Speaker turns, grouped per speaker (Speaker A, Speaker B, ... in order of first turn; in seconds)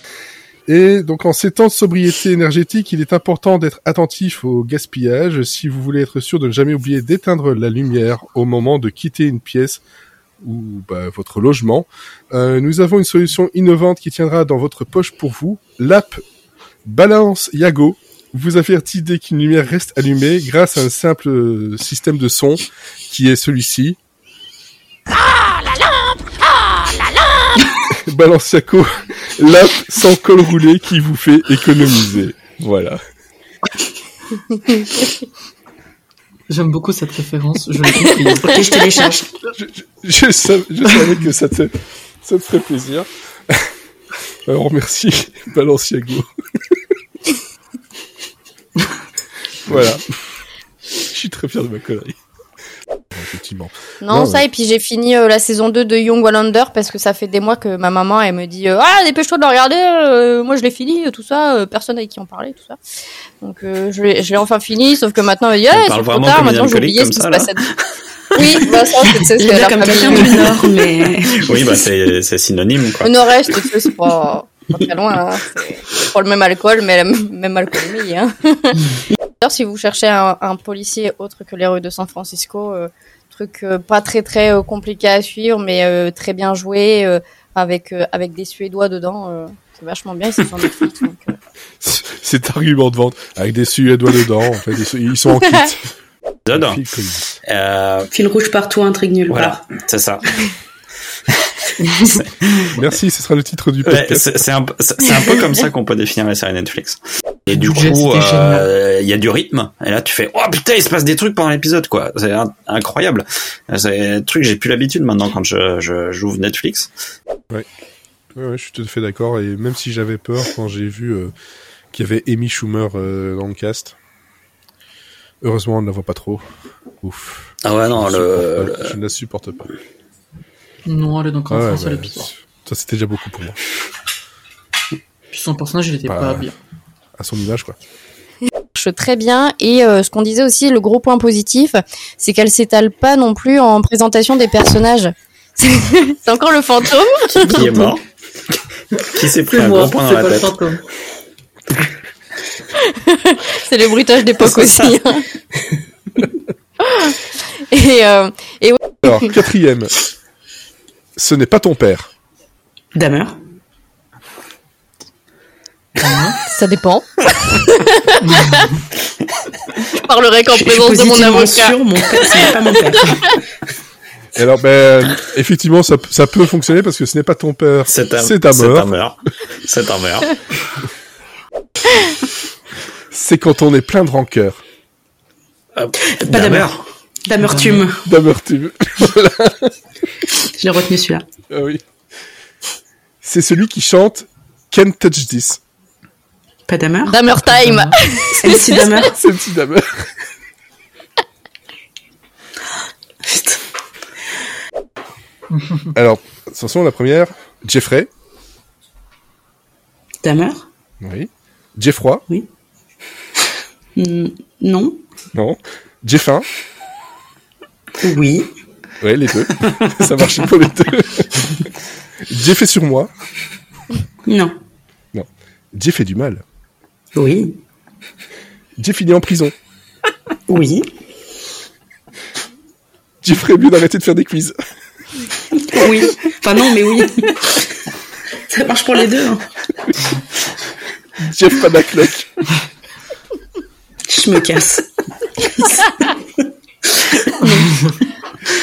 Speaker A: 0.7-9.8, 10.4-16.2, 16.9-24.0, 27.9-33.0, 39.5-43.6, 44.5-46.3, 49.6-50.0, 51.0-52.2, 53.1-54.5, 91.8-95.8, 96.5-97.3, 102.7-104.5, 118.3-121.3, 121.9-124.0, 125.4-126.4, 127.0-129.7, 131.5-133.6, 136.1-136.5, 137.2-137.8, 159.0-159.9, 161.2-162.1, 174.3-178.9, 183.1-184.6, 188.0-189.7, 191.5-191.8, 193.2-195.6, 199.0-200.1, 205.9-208.1, 211.0-212.2, 215.3-216.4, 219.0-221.5, 222.3-223.1, 225.1-226.4, 228.8-229.5, 233.2-234.5, 241.2-242.3
Speaker B: 36.5-38.6, 107.5-108.7, 130.8-132.3, 135.3-136.5, 149.5-150.8, 166.0-166.4, 168.3-168.7, 187.4-187.8, 197.3-197.9
Speaker C: 38.0-38.5, 54.0-62.8, 63.4-67.6, 68.3-70.5, 73.0-78.8, 79.4-91.3, 138.7-147.8, 152.9-155.2, 156.8-159.3, 166.4-168.7, 169.9-171.8, 197.0-198.9, 247.4-247.7
Speaker D: 38.4-39.3, 69.4-71.7, 98.1-99.6, 162.9-163.4, 170.5-173.2, 186.2-188.0, 190.6-191.2, 196.7-197.2, 198.3-199.1, 203.2-203.6, 210.2-210.7, 213.9-215.0, 218.0-218.5, 224.2-224.5, 227.1-227.6, 230.5-230.9, 235.7-237.7, 238.5-239.4, 244.1-244.9, 245.4-245.7
Speaker E: 65.7-67.5, 71.3-73.1, 96.5-96.8, 97.4-98.1, 99.3-100.4, 102.0-102.7, 103.8-116.9, 127.6-128.9, 147.4-148.0, 148.9-150.6, 177.9-180.4, 185.8-186.8